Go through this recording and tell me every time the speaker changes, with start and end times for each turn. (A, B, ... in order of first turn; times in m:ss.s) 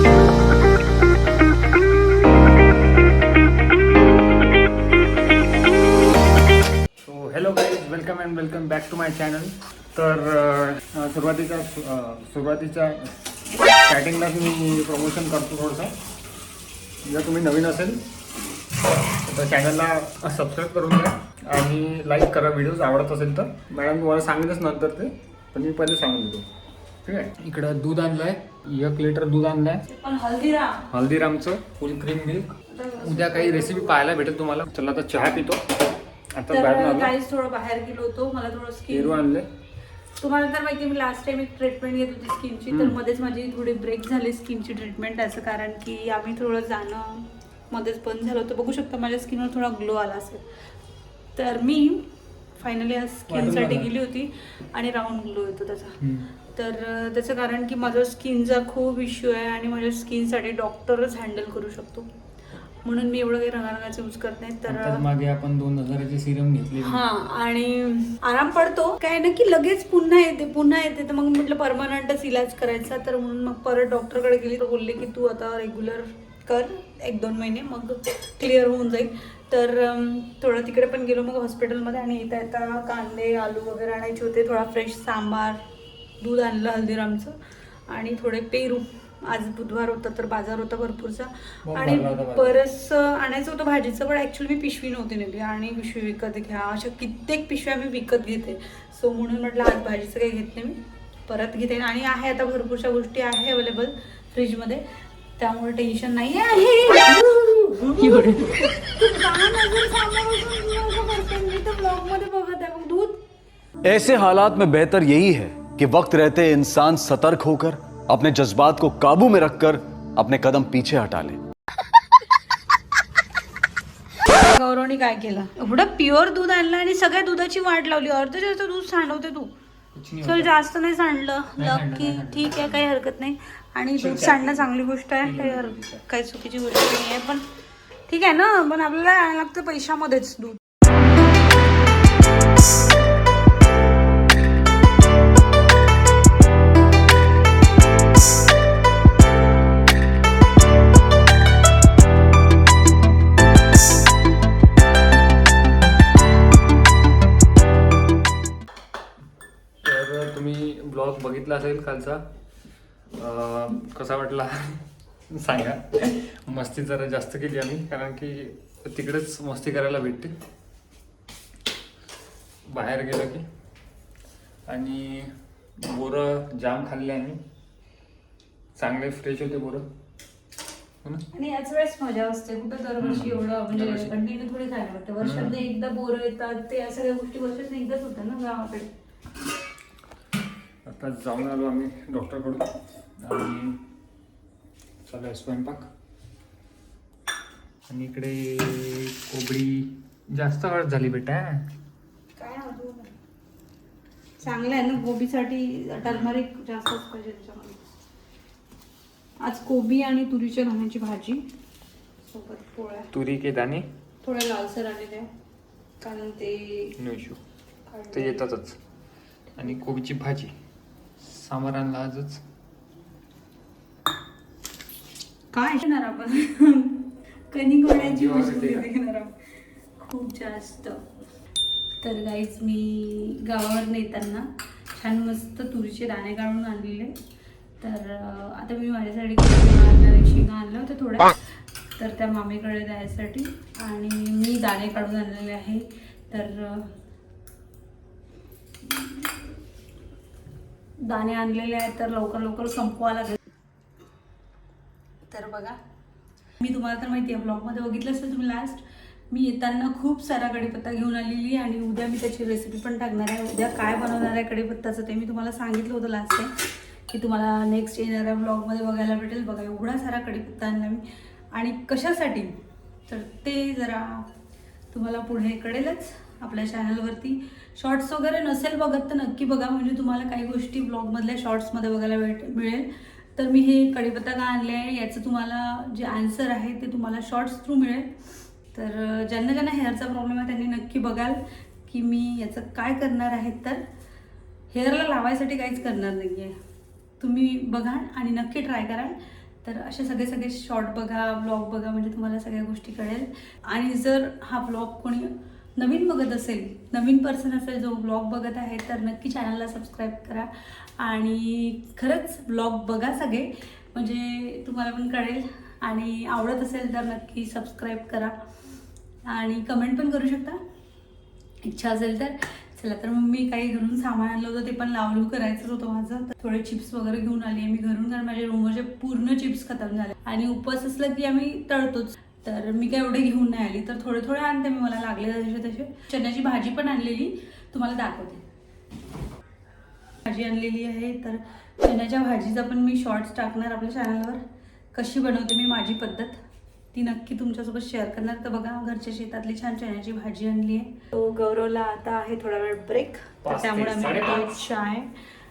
0:07.0-0:13.2 A
0:13.8-0:15.9 A
0:17.0-0:18.0 A
0:19.2-0:26.4 A
0:27.0-0:29.8 A
0:29.8-0:30.9 B
0:30.9-0:35.8 A
0:32.7-0:34.0 B
0:36.3-0:37.1 A
0:36.5-0:39.2 B
0:38.9-0:39.5 A
0:40.2-0:50.5 B
0:51.4-0:56.0 B
0:53.3-0:53.9 A
0:56.0-0:56.3 A
0:56.5-1:02.1 B
1:02.8-1:05.0 B
1:04.7-1:07.0 A
1:06.8-1:25.6 B
1:26.2-1:27.4 B
1:27.9-1:44.8 B
1:31.6-1:32.6 A
1:45.4-1:53.2 B
1:48.0-1:48.7 C
1:53.8-2:01.4 C
2:04.3-2:09.5 B
2:09.9-2:10.5 A
2:10.2-2:17.4 B
2:11.6-2:12.9 A
2:13.9-2:14.7 A
2:15.2-2:16.0 A
2:18.1-2:20.6 B
2:39.8-2:42.2 A
2:43.1-2:50.3 A
2:52.6-2:53.4 A
2:54.7-2:57.4 A
2:58.7-2:59.9 A
3:01.3-3:08.9 B
3:03.0-3:04.1 A
3:05.2-3:05.6 A
3:10.8-3:13.8 A
3:15.0-3:15.9 A
3:17.9-3:21.7 A
3:22.4-3:23.2 B
3:24.4-3:27.8 B
3:26.0-3:26.4 A
3:29.4-3:31.4 B
3:32.3-3:33.1 B
3:33.1-3:33.9 A
3:34.2-3:35.3 B
3:36.0-3:37.0 B
3:37.0-3:37.4 A
3:37.9-3:38.5 B
3:38.1-3:38.8 A
3:39.6-3:40.5 A
3:41.2-3:42.4 A
3:45.5-3:49.3 B
3:47.9-3:48.9 A
3:50.0-3:51.0 B
3:52.0-3:57.1 B
3:57.8-4:01.4 B
4:02.0-4:06.9 B
4:08.8-4:09.2 B
4:11.0-4:13.4 B
4:15.3-4:15.8 B
4:16.6-4:26.5 B
4:27.1-4:32.6 B
4:33.1-4:34.3 B
4:34.9-4:48.1 B
4:48.7-4:53.8 B
4:54.7-4:56.6 B
4:57.2-5:18.4 B
5:19.2-5:20.6 B
5:21.6-5:38.4 B
5:40.2-5:44.4 B
5:44.9-5:46.4 B
5:46.9-5:55.1 B
5:53.4-5:54.6 A